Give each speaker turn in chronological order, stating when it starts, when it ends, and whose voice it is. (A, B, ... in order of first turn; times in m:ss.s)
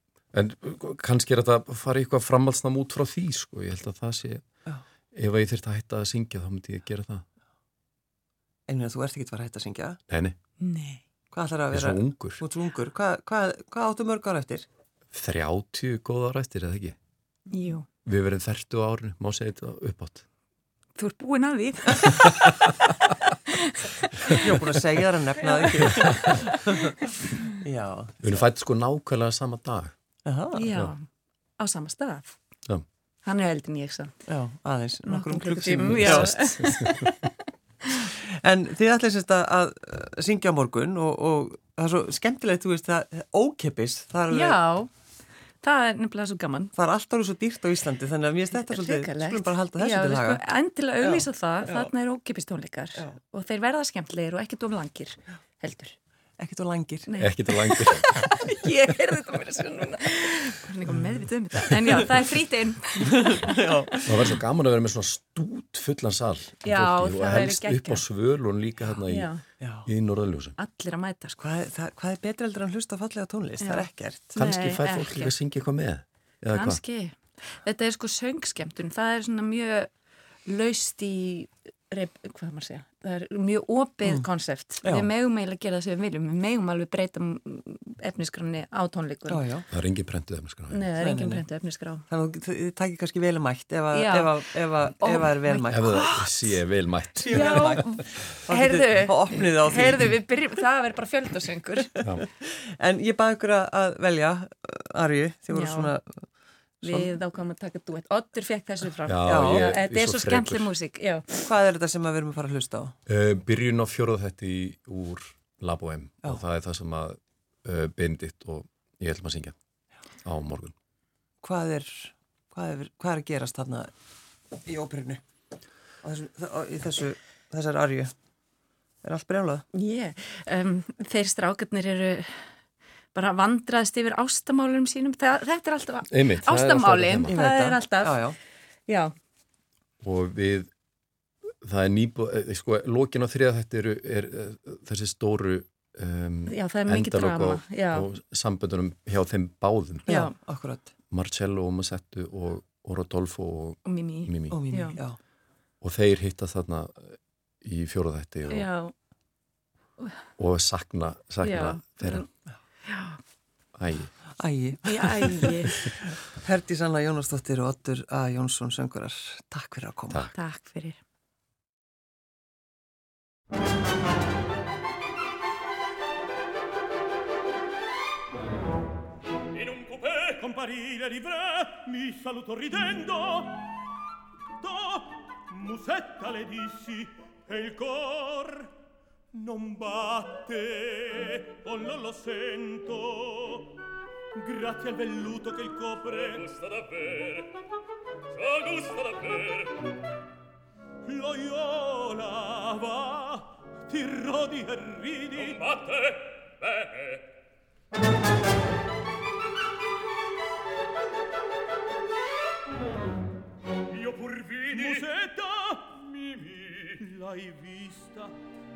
0:00.3-0:04.4 A
0:05.1-0:07.2 A
0:08.7-0:10.0 B
0:10.1-0:10.4 A
0:10.6-0:11.0 C
0:11.3-0:14.6 B
0:11.7-0:12.4 A
0:15.1-0:17.0 A
0:17.5-0:17.9 C
0:18.0-0:20.2 A
0:21.0-0:22.5 C
0:23.5-0:23.9 C
0:24.3-0:28.3 B
0:25.6-0:26.6 C
0:25.8-0:26.2 A
0:28.2-0:29.9 A
0:30.2-0:30.7 B
0:30.5-0:31.0 C
0:31.6-0:32.4 C
0:33.2-0:34.1 C
0:34.3-0:36.5 B
0:35.1-0:38.1 C
0:35.9-0:37.1 A
0:38.0-0:44.6 B
0:44.3-0:44.9 C
0:45.6-0:46.7 C
0:46.8-0:50.4 B
0:48.6-0:55.9 C
0:51.0-0:51.9 B
0:56.4-0:57.1 B
0:57.1-1:03.9 C
0:57.2-0:58.3 A
1:00.9-1:01.2 B
1:03.0-1:04.4 B
1:04.0-1:09.3 A
1:06.6-1:08.0 C
1:09.1-1:09.4 C
1:09.6-1:09.9 B
1:09.8-1:10.6 A
1:10.6-1:11.4 C
1:11.4-1:14.4 B
1:13.6-1:15.3 C
1:14.4-1:16.8 A
1:16.5-1:19.9 C
1:20.4-1:29.4 C
1:24.8-1:25.1 B
1:29.3-1:29.6 B
1:29.7-1:30.8 A
1:30.7-1:32.0 C
1:31.0-1:31.4 B
1:32.1-1:35.9 B
1:33.9-1:34.4 C
1:35.0-1:36.5 C
1:35.7-1:37.9 A
1:37.2-1:40.2 B
1:37.3-1:41.9 C
1:42.0-1:46.2 B
1:45.5-1:45.9 C
1:46.8-1:51.5 C
1:46.8-1:47.1 B
1:49.1-1:50.7 A
1:49.2-1:49.8 B
1:51.4-1:53.0 B
1:53.1-1:59.6 A
2:00.2-2:00.7 A
2:01.4-2:03.9 B
2:04.6-2:05.2 B
2:06.0-2:08.1 B
2:09.0-2:09.6 B
2:09.7-2:12.5 C
2:13.1-2:18.2 C
2:16.1-2:17.4 A
2:17.3-2:18.4 B
2:18.9-2:19.1 C
2:20.0-2:20.7 A
2:21.6-2:30.1 A
2:26.5-2:28.1 C
2:30.1-2:30.3 C
2:30.1-2:30.9 B
2:31.1-2:34.6 A
2:33.8-2:35.0 C
2:34.5-2:35.2 B
2:35.8-2:38.7 A
2:38.5-2:38.9 C
2:40.4-2:42.2 A
2:41.4-2:42.3 C
2:42.8-2:43.2 C
2:43.7-2:44.1 A
2:44.4-2:50.3 B
2:44.8-2:45.9 C
2:50.3-2:51.0 C
2:59.7-3:00.1 D
3:00.2-3:03.7 E
3:04.6-3:08.7 E
3:09.3-3:13.8 E
3:14.3-3:16.6 E
3:16.6-3:17.5 D
3:18.4-3:19.8 D
3:21.0-3:25.8 E
3:25.8-3:26.2 D
3:34.0-3:34.6 D
3:34.6-3:36.2 E
3:36.8-3:38.3 E